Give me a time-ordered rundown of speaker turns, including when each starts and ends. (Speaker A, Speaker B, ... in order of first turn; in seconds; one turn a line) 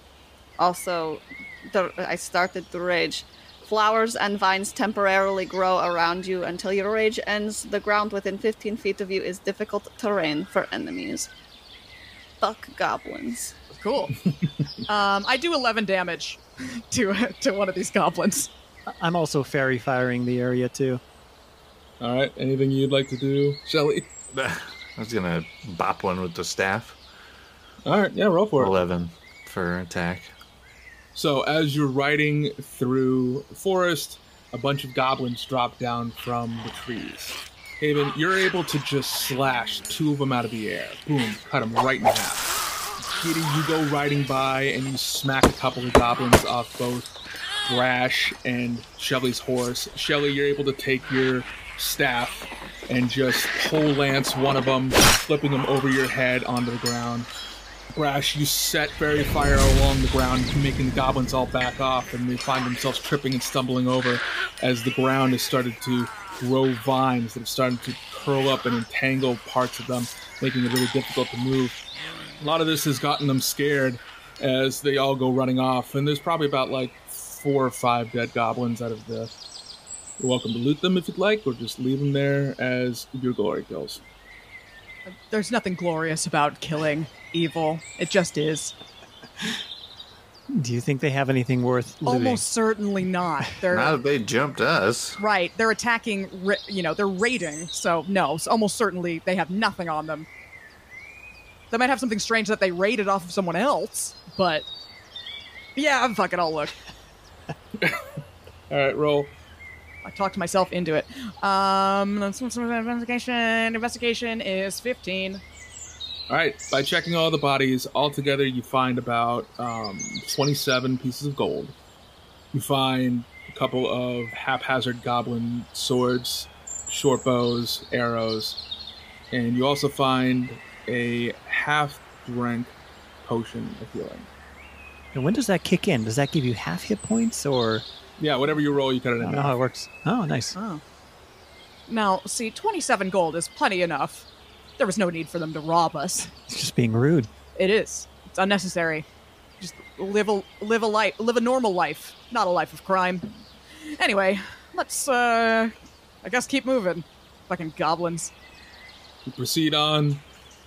Speaker A: 0.6-11.3
Speaker A: 12.4-13.5
Speaker B: 13.7-14.2
Speaker B: 14.8-18.5
Speaker C: 18.9-21.0
Speaker D: 22.0-24.1
Speaker E: 24.3-27.0
Speaker D: 27.8-28.8
Speaker E: 28.6-30.3
Speaker D: 31.1-42.5
Speaker D: 43.2-47.1
Speaker D: 47.6-57.3
Speaker D: 57.9-71.8
Speaker D: 72.4-79.3
Speaker D: 80.2-84.0
Speaker B: 85.3-88.7
Speaker C: 90.5-92.4
Speaker B: 92.0-94.0
Speaker E: 93.7-95.2
Speaker B: 95.2-100.3
Speaker B: 101.7-104.7
Speaker B: 105.8-106.7
Speaker D: 107.8-108.2
Speaker D: 108.7-109.3
Speaker B: 110.0-115.4
Speaker D: 116.3-121.7
Speaker D: 122.5-128.6
Speaker D: 129.3-134.3
Speaker C: 135.1-137.8
Speaker D: 138.2-139.6
Speaker C: 139.2-140.6
Speaker B: 140.5-140.8
Speaker B: 141.9-144.3
Speaker B: 144.8-146.3
Speaker C: 146.3-147.3
Speaker B: 147.6-149.1
Speaker B: 149.6-153.3
Speaker B: 153.9-158.3
Speaker D: 159.2-160.2